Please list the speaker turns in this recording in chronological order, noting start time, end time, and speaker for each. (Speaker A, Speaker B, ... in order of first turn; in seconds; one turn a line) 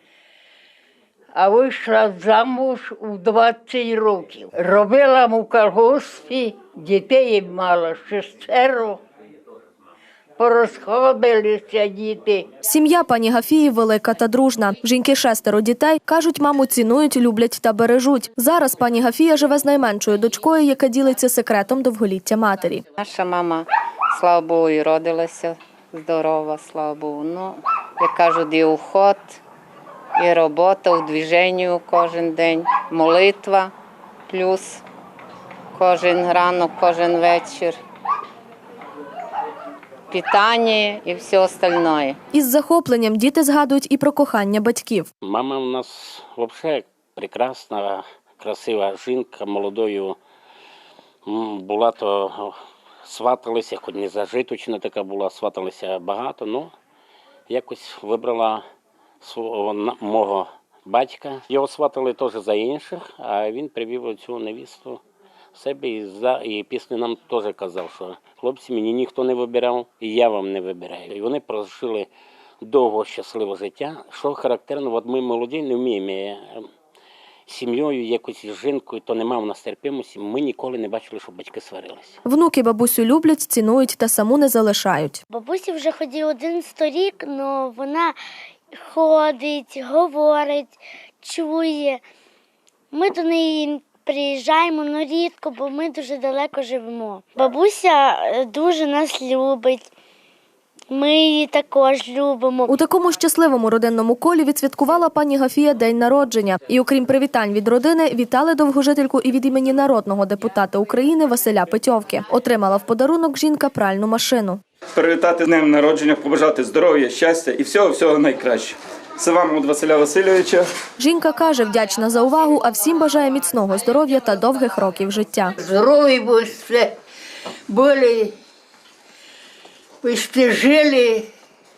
Speaker A: 1.3-9.0
Speaker A: 10.4-12.4
Speaker B: 12.6-22.8
Speaker C: 23.0-29.4
Speaker C: 30.1-33.7
Speaker C: 34.3-34.8
Speaker C: 35.7-37.8
Speaker C: 40.1-42.2
Speaker B: 42.3-45.1
Speaker D: 45.2-50.2
Speaker D: 51.2-52.5
Speaker D: 53.0-56.7
Speaker D: 57.5-58.6
Speaker D: 59.2-65.0
Speaker D: 65.5-72.1
Speaker D: 72.6-76.6
Speaker D: 77.5-82.2
Speaker B: 82.2-85.2
Speaker E: 85.3-88.1
Speaker E: 88.8-92.0
Speaker E: 92.9-99.8
Speaker E: 100.9-102.7
Speaker B: 102.7-114.6
Speaker F: 114.9-120.7
Speaker B: 121.0-125.5
Speaker A: 125.6-126.9
Speaker A: 127.7-128.3
Speaker A: 130.0-131.2